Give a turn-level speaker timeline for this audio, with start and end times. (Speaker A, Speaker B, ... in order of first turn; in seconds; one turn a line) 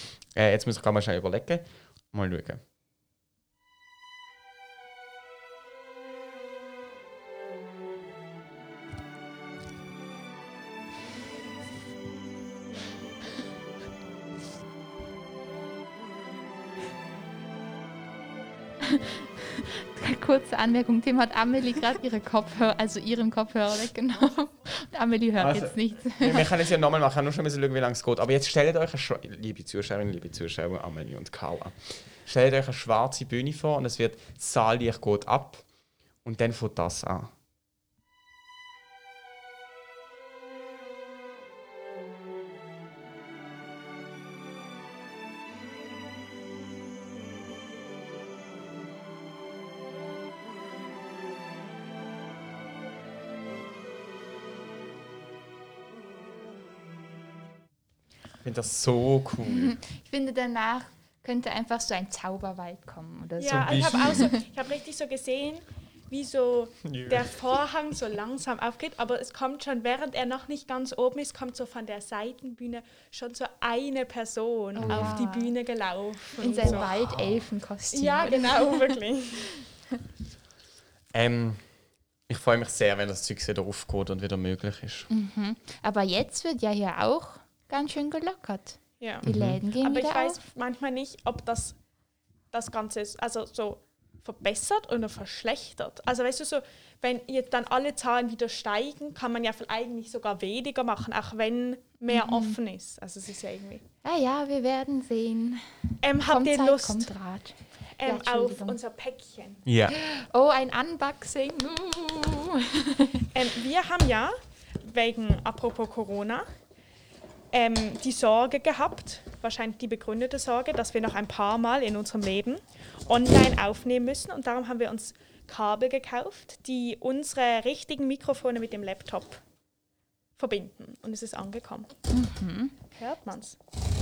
Speaker A: 0.3-2.6
Speaker B: 18.8-26.5
Speaker A: 25.4-35.6
Speaker A: 36.2-37.3
Speaker A: 58.4-59.8
Speaker B: 59.5-64.4
Speaker C: 63.4-76.9
Speaker A: 63.5-64.3
Speaker A: 66.8-67.4
Speaker B: 74.8-75.5
Speaker A: 74.8-75.2
Speaker B: 76.4-79.0
Speaker A: 76.6-77.4
Speaker C: 77.9-79.5
Speaker A: 81.1-81.6
Speaker A: 82.3-85.1
Speaker B: 85.1-90.4
Speaker A: 89.2-89.6
Speaker C: 89.8-91.8
Speaker C: 92.5-103.8
Speaker B: 102.1-102.6
Speaker B: 104.0-105.7
Speaker C: 106.0-107.1
Speaker B: 106.2-108.8
Speaker C: 108.0-109.6
Speaker A: 109.7-110.0
Speaker B: 109.9-113.3
Speaker C: 113.3-116.5
Speaker C: 117.5-129.4
Speaker C: 130.4-131.9
Speaker B: 132.1-132.8
Speaker C: 132.9-133.6